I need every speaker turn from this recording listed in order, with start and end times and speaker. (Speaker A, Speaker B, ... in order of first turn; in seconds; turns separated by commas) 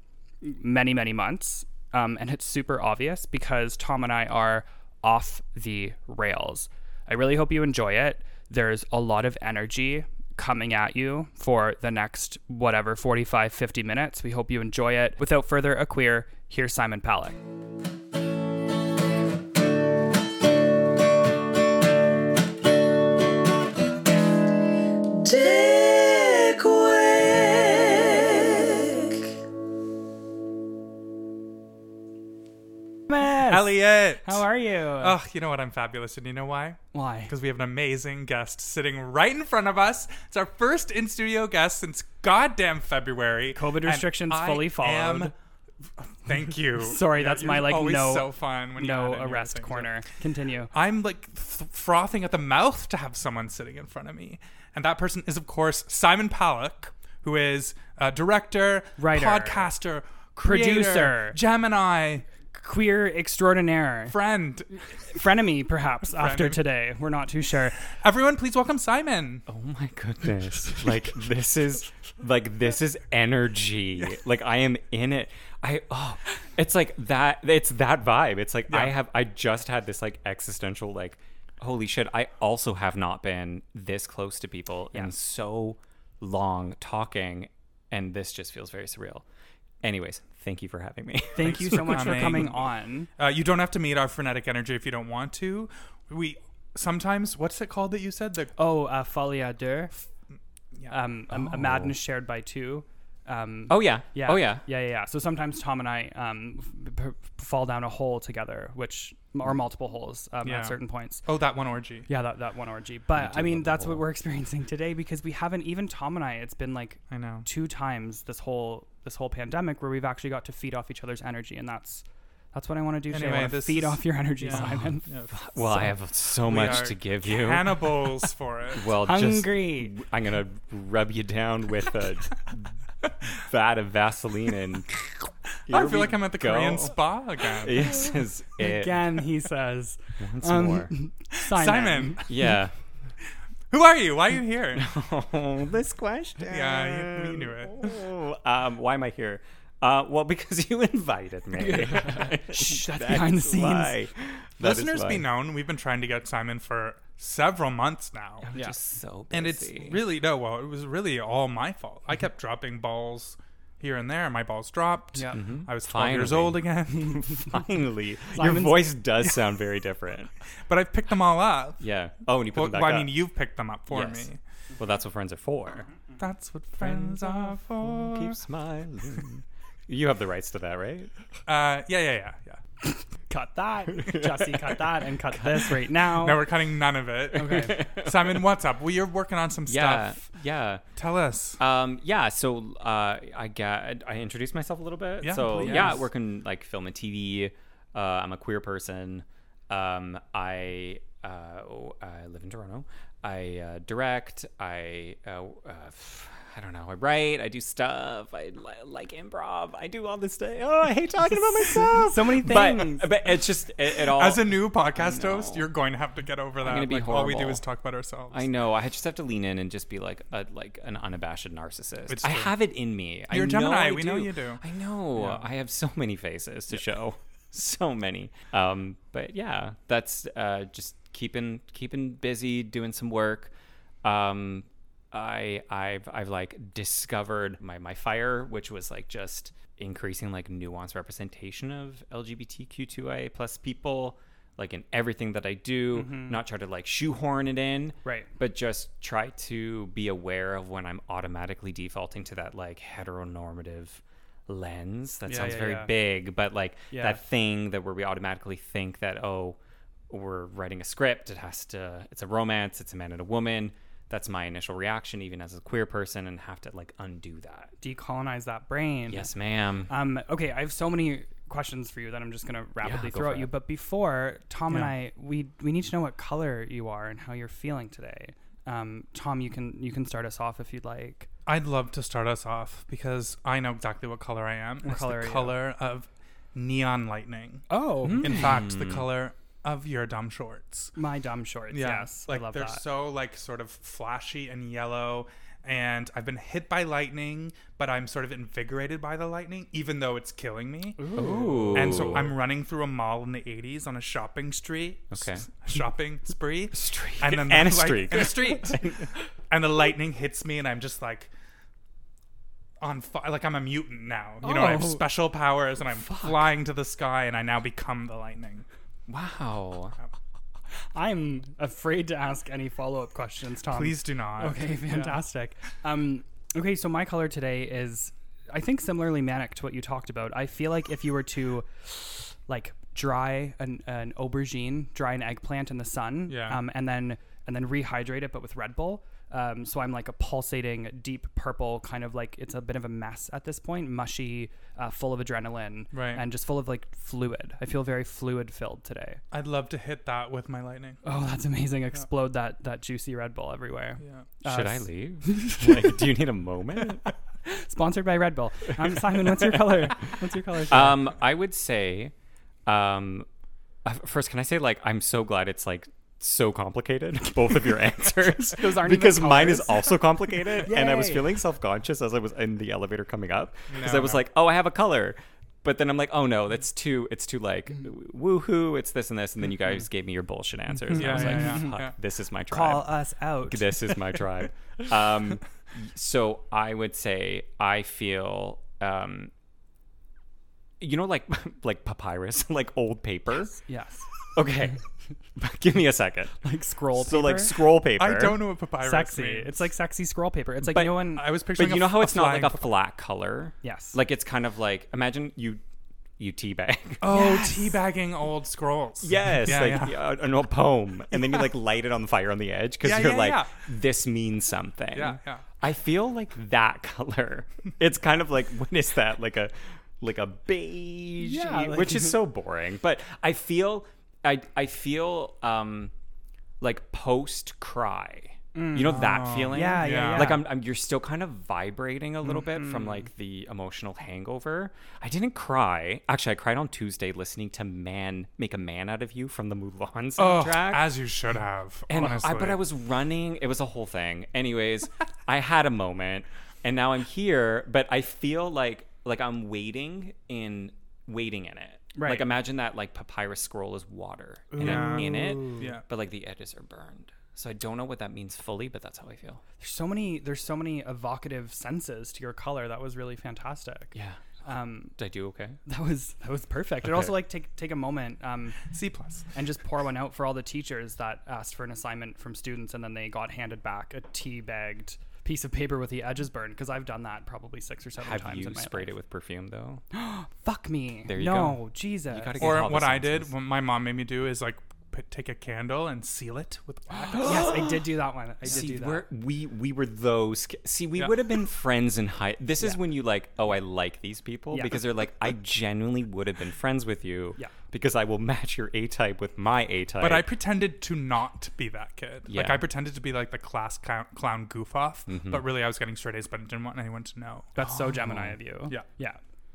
Speaker A: 0.4-17.4, Speaker B: 25.1-29.3, Speaker A: 33.1-35.2, Speaker C: 33.4-45.3, Speaker A: 36.9-37.3, Speaker A: 43.5-45.3, Speaker C: 46.0-49.9, Speaker A: 46.8-50.7, Speaker C: 50.7-62.2, Speaker A: 59.0-59.7, Speaker A: 60.4-61.4, Speaker A: 62.5-64.2, Speaker C: 64.1-64.8, Speaker A: 64.9-67.8, Speaker C: 66.2-66.6, Speaker C: 67.9-69.5, Speaker D: 69.5-89.2, Speaker C: 78.7-78.9, Speaker D: 89.8-92.5, Speaker A: 91.3-93.1, Speaker C: 91.4-98.5, Speaker A: 98.6-99.9, Speaker A: 100.9-111.2, Speaker D: 101.4-101.9, Speaker D: 103.7-104.6, Speaker C: 110.4-112.1, Speaker A: 112.1-125.1, Speaker D: 113.2-114.0, Speaker C: 117.1-117.5, Speaker C: 123.1-125.5, Speaker D: 124.5-128.1, Speaker C: 126.4-128.9, Speaker D: 128.7-136.9, Speaker A: 129.0-129.9, Speaker C: 135.7-138.2, Speaker D: 137.6-139.2, Speaker A: 138.6-142.3, Speaker D: 140.2-140.9, Speaker C: 141.4-142.4, Speaker D: 142.3-142.7, Speaker C: 143.7-144.9, Speaker D: 144.8-155.3, Speaker C: 146.4-148.0, Speaker A: 151.6-154.0, Speaker C: 154.6-158.5, Speaker D: 158.4-160.0, Speaker C: 159.3-167.5, Speaker A: 165.1-165.4, Speaker D: 165.3-170.3, Speaker A: 168.3-168.9, Speaker C: 170.7-171.8, Speaker D: 171.8-173.2, Speaker C: 172.5-174.4, Speaker D: 173.9-175.9, Speaker C: 176.2-178.4, Speaker D: 176.8-181.1, Speaker C: 181.5-182.6, Speaker A: 182.8-186.5, Speaker D: 184.0-184.6, Speaker C: 186.0-190.2, Speaker A: 187.3-187.9, Speaker D: 187.8-188.2, Speaker D: 189.7-190.8, Speaker C: 191.0-191.6, Speaker D: 191.6-215.7, Speaker C: 195.2-196.1, Speaker A: 195.6-196.0, Speaker A: 211.7-213.1, Speaker C: 214.0-218.5, Speaker D: 216.6-217.6, Speaker D: 218.3-233.5, Speaker C: 222.1-222.6, Speaker C: 223.3-224.6, Speaker C: 225.2-225.5, Speaker D: 234.0-267.7, Speaker A: 245.9-246.4, Speaker A: 248.0-248.3, Speaker A: 255.3-255.9, Speaker A: 256.9-257.2, Speaker A: 267.8-269.3, Speaker D: 269.1-269.9, Speaker A: 269.9-281.3, Speaker D: 272.8-273.5, Speaker C: 281.5-290.9, Speaker A: 284.8-285.6, Speaker A: 287.7-288.5, Speaker D: 288.0-289.1, Speaker A: 291.0-292.8, Speaker C: 291.7-308.8, Speaker A: 301.0-302.1, Speaker D: 301.2-302.4, Speaker D: 305.1-305.5, Speaker D: 306.7-309.1, Speaker C: 309.5-311.3, Speaker C: 312.8-318.7, Speaker A: 314.4-315.1, Speaker D: 319.1-319.9, Speaker A: 320.9-349.2, Speaker C: 323.7-325.2, Speaker C: 336.3-336.6, Speaker C: 345.9-346.2, Speaker C: 349.3-351.0, Speaker A: 351.0-356.0, Speaker C: 354.0-354.3, Speaker D: 354.4-357.1, Speaker A: 357.4-361.1, Speaker D: 358.9-360.1, Speaker D: 360.7-362.1, Speaker D: 362.7-363.3, Speaker D: 363.9-382.9, Speaker A: 368.4-371.3, Speaker C: 373.7-374.2, Speaker A: 380.9-381.8, Speaker C: 380.9-381.9, Speaker A: 382.5-383.9, Speaker D: 383.4-389.3, Speaker D: 390.8-393.6, Speaker A: 393.6-394.1, Speaker D: 394.3-394.8, Speaker D: 395.4-396.4, Speaker A: 396.4-397.6, Speaker D: 396.9-398.4, Speaker C: 397.9-399.6, Speaker A: 398.8-401.3, Speaker D: 400.7-405.6, Speaker C: 401.0-402.7, Speaker A: 403.6-404.0, Speaker D: 406.2-407.1, Speaker C: 407.0-410.0, Speaker A: 407.1-407.8, Speaker D: 409.0-425.9, Speaker C: 412.8-413.6, Speaker C: 414.9-415.4, Speaker A: 421.2-422.1, Speaker D: 426.6-440.9, Speaker A: 428.6-430.4, Speaker C: 428.8-430.4, Speaker A: 432.3-433.0, Speaker C: 440.2-442.6, Speaker D: 441.9-459.4, Speaker A: 451.9-452.3, Speaker A: 454.5-455.7, Speaker C: 454.6-455.8, Speaker A: 459.6-463.9, Speaker D: 463.9-464.2, Speaker A: 464.4-464.9, Speaker D: 465.0-465.6, Speaker A: 465.7-468.6, Speaker C: 468.6-469.3, Speaker A: 469.3-478.9, Speaker D: 478.0-479.8, Speaker A: 479.9-482.6, Speaker D: 481.1-483.3, Speaker C: 482.4-487.5, Speaker A: 487.0-489.1, Speaker D: 487.1-487.9, Speaker D: 488.4-500.3, Speaker A: 494.5-494.8, Speaker C: 500.0-507.6, Speaker D: 502.3-502.6, Speaker D: 505.1-505.4, Speaker A: 507.6-509.2, Speaker D: 507.7-508.4